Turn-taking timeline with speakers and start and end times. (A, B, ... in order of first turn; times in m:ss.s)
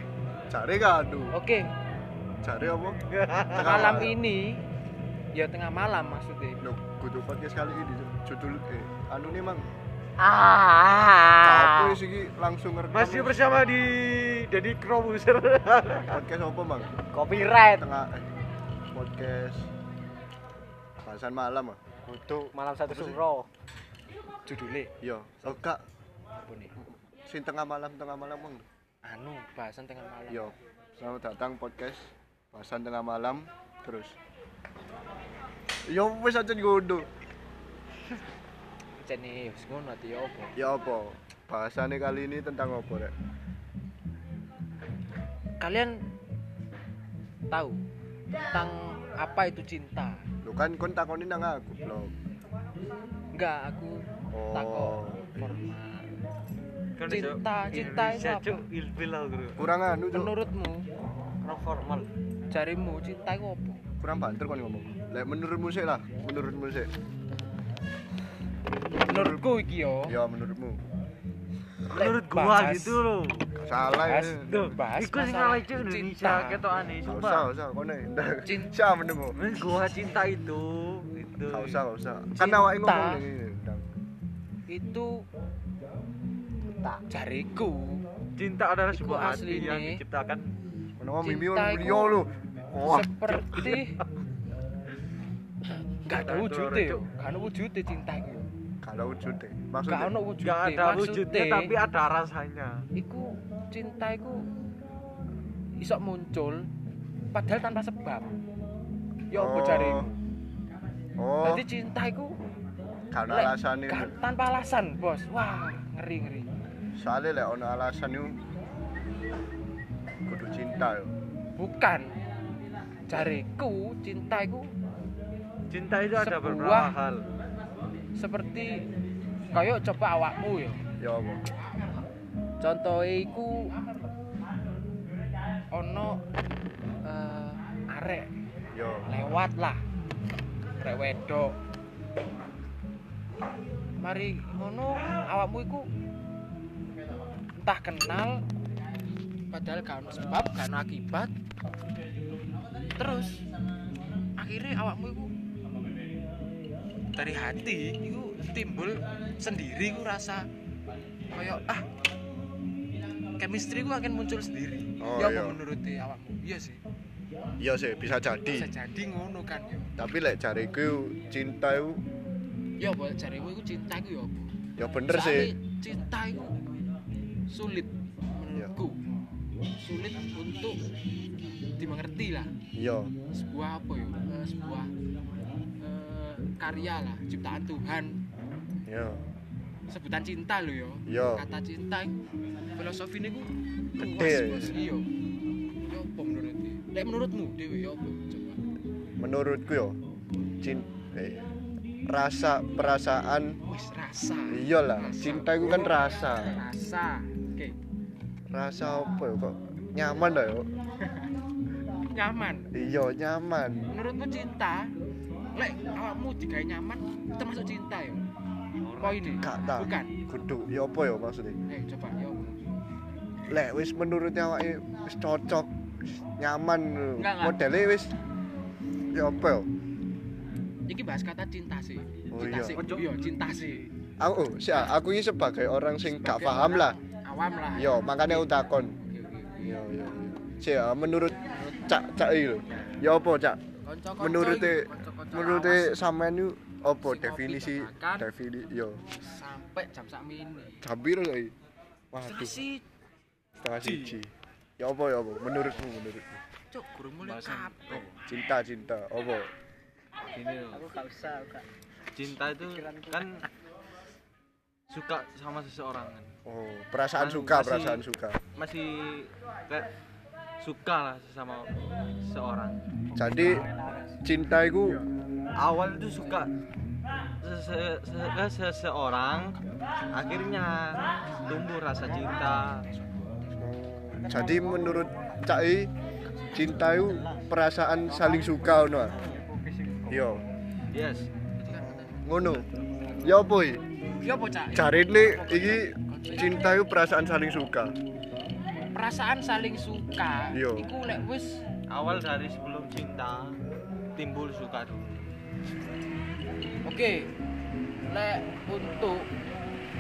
0:00.5-0:01.3 A
0:01.3-0:01.7 B
0:02.4-0:03.0 A
0:03.1-0:04.0 C
0:03.5-0:04.1 A
0:03.5-0:04.6 B
0:05.3-0:06.7 B
0:06.6-0:09.6 A
0:10.2-0:12.0 D
0:11.4-0:13.4 A
0:12.9-0:16.2 C
0:16.1-0:16.9 A
0:17.0-0:17.9 D
0:17.7-0:18.2 A
0:18.9-0:19.7 A
0:21.0-0:23.2 A
0:22.5-0:23.5 D
0:24.5-0:25.6 B
0:25.0-0:25.8 A
0:26.4-0:26.7 B
0:27.3-0:28.6 A
0:29.0-0:30.5 B
0:30.3-0:34.2 A
0:35.9-0:37.1 A
0:39.0-0:40.5 B
0:40.6-0:43.1 A
0:45.6-0:46.0 B
0:47.5-0:47.8 B
0:48.5-0:50.2 B
0:50.4-0:52.1 A
0:53.3-0:55.4 B
0:54.3-0:55.5 A
0:55.4-0:56.1 C
0:57.0-0:59.7 C
0:57.0-0:58.6 B
0:59.6-1:00.3 A
1:00.1-1:00.8 B
1:01.4-1:02.1 C
1:02.5-1:03.8 B
1:04.0-1:06.9 A
1:09.0-1:10.1 B
1:09.0-1:09.4 A
1:10.0-1:10.8 A
1:11.9-1:13.5 C
1:11.9-1:13.0 B
1:13.6-1:14.5 A
1:14.0-1:16.6 B
1:14.5-1:17.5 C
1:17.0-1:19.4 A
1:18.4-1:18.7 B
1:19.3-1:21.8 C
1:21.5-1:23.8 A
1:22.3-1:23.2 B
1:24.7-1:25.2 B
1:27.1-1:28.0 B
1:28.4-1:30.5 C
1:28.9-1:30.0 B
1:31.0-1:33.7 A
1:31.2-1:32.2 B
1:32.8-1:34.0 B
1:33.5-1:33.8 C
1:35.7-1:38.5 B
1:36.1-1:37.0 C
1:38.8-1:40.2 A
1:39.9-1:41.7 B
1:40.4-1:42.8 C
1:42.9-1:44.4 B
1:45.8-1:46.7 B
1:47.3-1:48.3 B
1:49.3-1:50.1 B
1:49.3-1:50.1 A
1:51.2-1:51.6 A
1:51.4-1:52.3 B
1:53.1-1:54.2 A
1:53.3-1:56.5 B
1:56.9-1:58.4 A
2:00.2-2:01.1 A
2:01.6-2:02.1 B
2:03.1-2:04.7 B
2:05.7-2:07.3 C
2:06.2-2:06.9 B
2:08.2-2:08.8 B
2:09.5-2:10.8 B
2:11.0-2:11.4 A
2:12.6-2:13.9 B
2:15.7-2:16.2 B
2:17.0-2:18.3 B
2:18.7-2:19.1 A
2:19.1-2:19.8 B
2:20.8-2:21.6 B
2:24.0-2:25.9 B
2:27.6-2:28.4 B
2:29.5-2:31.3 B
2:32.9-2:33.4 B
2:34.4-2:35.3 B
2:37.1-2:40.5 B
2:41.3-2:41.8 B
2:43.4-2:46.8 B
2:45.0-2:45.6 A
2:47.6-2:48.7 A
2:48.5-2:49.9 B
2:50.0-2:52.0 A
2:52.8-2:54.5 B
2:54.8-2:55.5 A
2:55.1-2:56.6 B
2:57.5-2:59.0 B
2:59.8-3:00.8 B
3:01.8-3:02.5 B
3:02.7-3:03.1 A
3:03.3-3:04.9 B
3:05.8-3:08.2 B
3:08.8-3:09.2 A
3:09.9-3:12.2 B
3:11.1-3:11.4 A
3:12.7-3:15.1 B
3:14.0-3:14.8 A
3:15.8-3:18.6 B
3:19.2-3:20.0 A
3:20.6-3:21.5 A
3:22.0-3:23.6 A
3:23.6-3:27.8 B
3:24.5-3:26.6 A
3:28.5-3:30.7 A
3:32.1-3:32.7 B
3:32.7-3:33.9 A
3:33.9-3:34.9 B
3:35.5-3:38.2 B
3:38.8-3:39.6 C
3:39.0-3:40.2 B
3:39.4-3:41.6 A
3:41.7-3:42.8 B
3:43.5-3:48.1 A
3:47.2-3:47.6 B
3:49.1-3:49.7 A
3:50.8-3:53.9 B
3:52.3-3:52.8 A
3:52.7-3:53.8 C
3:54.2-3:57.0 A
3:56.1-3:59.6 B
3:57.7-3:58.9 A
3:59.6-4:03.6 A
4:03.8-4:06.0 B
4:04.2-4:09.0 A
4:07.0-4:08.3 B
4:09.2-4:10.8 B
4:10.8-4:11.5 A
4:12.1-4:12.6 A
4:12.2-4:12.8 B
4:13.6-4:16.4 A
4:13.9-4:14.1 C
4:16.7-4:18.0 B
4:17.2-4:18.2 C
4:18.2-4:19.5 A
4:20.3-4:20.9 C
4:20.7-4:21.6 D
4:22.1-4:23.5 C
4:22.5-4:23.3 D
4:24.9-4:26.3 C
4:26.4-4:28.4 A
4:27.1-4:29.9 C
4:30.6-4:32.8 C
4:33.1-4:33.7 A
4:33.2-4:34.2 D
4:34.2-4:35.0 A
4:35.6-4:36.5 C
4:37.4-4:39.6 C
4:40.1-4:42.8 C
4:43.6-4:45.9 A
4:44.3-4:45.1 D
4:46.5-4:49.2 A
4:46.5-4:47.5 C
4:48.1-4:50.3 D
4:49.0-4:49.4 C
4:50.1-4:50.4 A
4:50.9-4:51.3 C
4:51.6-4:52.6 B
4:51.7-4:52.6 A
4:53.2-4:53.8 A
4:54.2-4:56.6 B
4:54.7-4:57.9 A
4:58.8-5:01.6 B
5:00.5-5:00.9 A
5:01.9-5:03.6 C
5:04.2-5:05.3 C
5:06.8-5:07.3 B
5:08.0-5:09.3 B